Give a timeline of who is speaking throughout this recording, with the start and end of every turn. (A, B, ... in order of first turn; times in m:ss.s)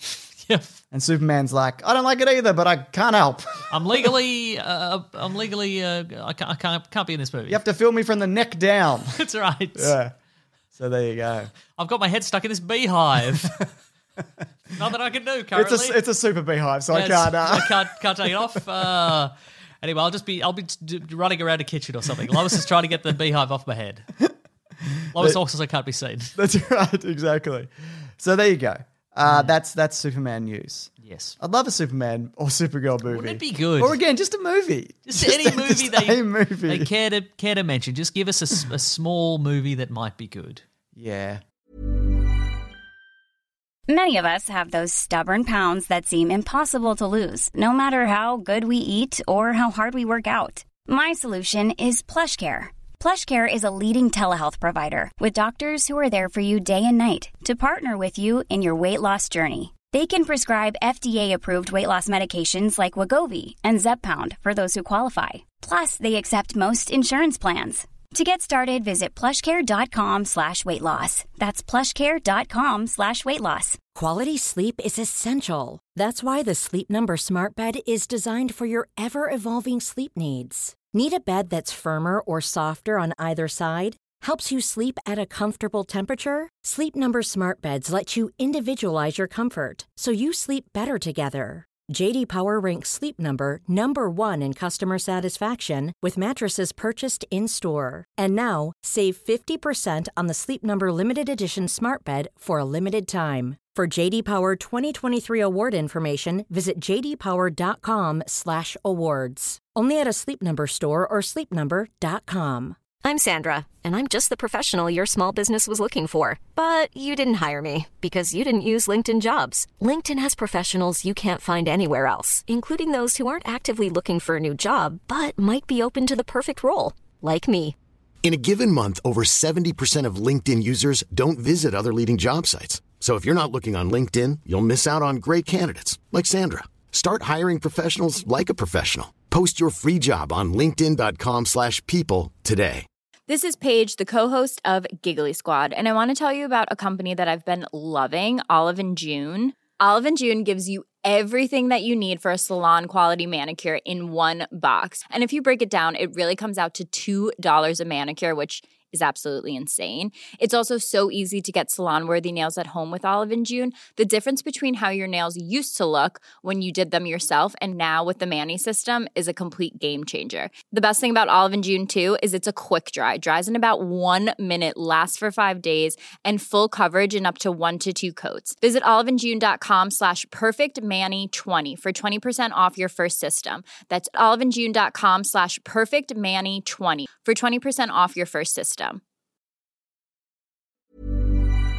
0:00.4-0:00.8 A
0:00.9-0:03.7 B
0:03.7-0:07.6 A
0:07.5-0:09.2 B
0:09.1-0:10.0 A
0:09.8-0:10.1 B
0:10.8-0:11.5 B
0:11.7-0:13.7 A
0:14.7-0:16.0 A
0:15.5-0:17.8 B
0:16.9-0:24.1 A
0:24.8-0:25.4 B
0:25.1-0:26.4 A
0:26.4-0:36.9 B
0:29.2-0:29.6 A
0:31.0-0:31.4 A
0:33.1-0:34.0 A
0:35.1-0:40.6 A
0:40.9-0:41.4 B
0:43.9-1:13.8 C
1:13.9-1:52.8 D
1:53.0-2:07.8 E
2:08.2-2:22.9 F
2:23.3-3:09.0 G